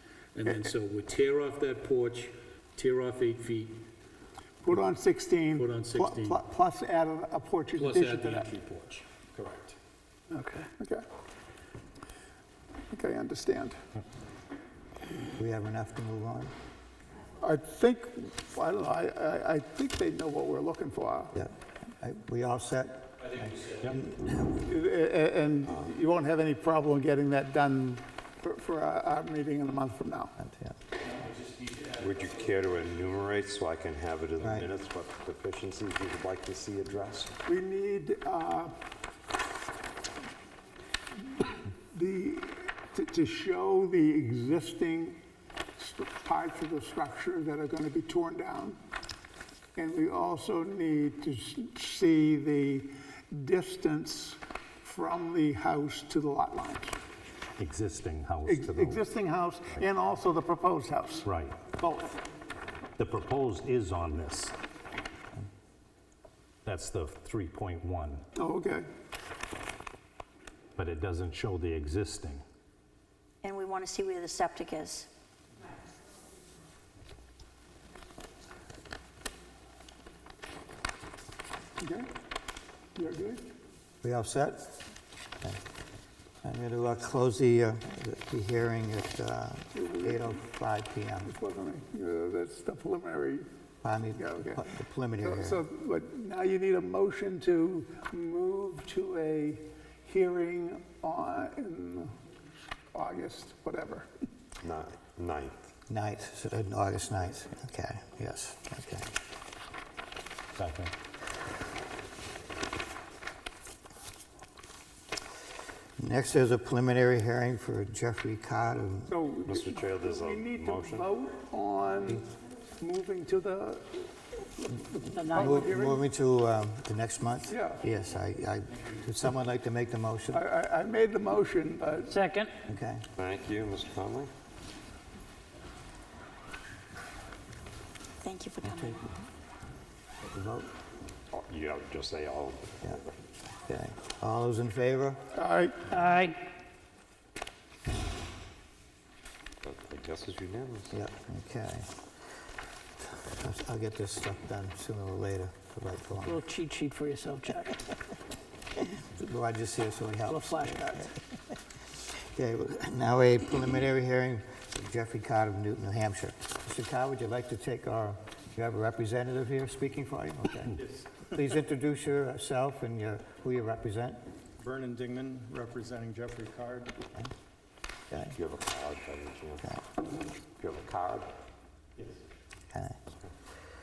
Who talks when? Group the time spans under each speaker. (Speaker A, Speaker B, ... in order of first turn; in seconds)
Speaker A: 0.3-3.8, 5.5-6.4, 7.8-9.6
Speaker B: 4.6-8.5, 10.8-11.0, 12.9-13.8, 17.4-21.3, 24.6-30.3, 37.5-38.7, 41.4-45.2, 45.8-48.8, 49.8-57.0, 58.5-62.2, 68.3-68.8, 81.8-82.1, 83.0-83.5, 89.7-90.3, 91.3-93.5, 94.2-94.6, 95.2-102.1, 102.9-104.1, 119.1-122.2, 122.8-126.0, 127.5-127.8, 130.3-132.1, 145.3-145.9
Speaker C: 10.3-10.7, 125.1-125.5, 132.1-132.5, 145.9-146.4, 156.2-157.8, 160.3-161.1
Speaker D: 15.3-16.5, 21.3-24.6, 30.4-30.8, 34.4-34.7, 84.0-84.8, 86.4-91.3, 93.8-95.6, 105.9-109.1, 116.0-119.1, 125.3-130.4, 132.7-133.0, 140.2-140.7, 143.6-145.2, 150.9-151.9, 153.2-156.4, 158.9-161.2, 162.3-174.2, 178.1-178.3, 182.7-183.0
Speaker E: 31.9-37.4, 104.6-105.7, 119.4-121.1, 133.2-134.3, 141.3-143.0, 149.6-150.9, 178.3-179.7, 180.6-181.3
Speaker F: 57.6-59.0, 61.2-61.6, 63.0-64.5, 66.6-68.2, 70.8-72.4, 110.6-110.9
Speaker G: 73.4-75.1, 138.2-139.0
Speaker H: 170.8-171.3, 174.6-177.0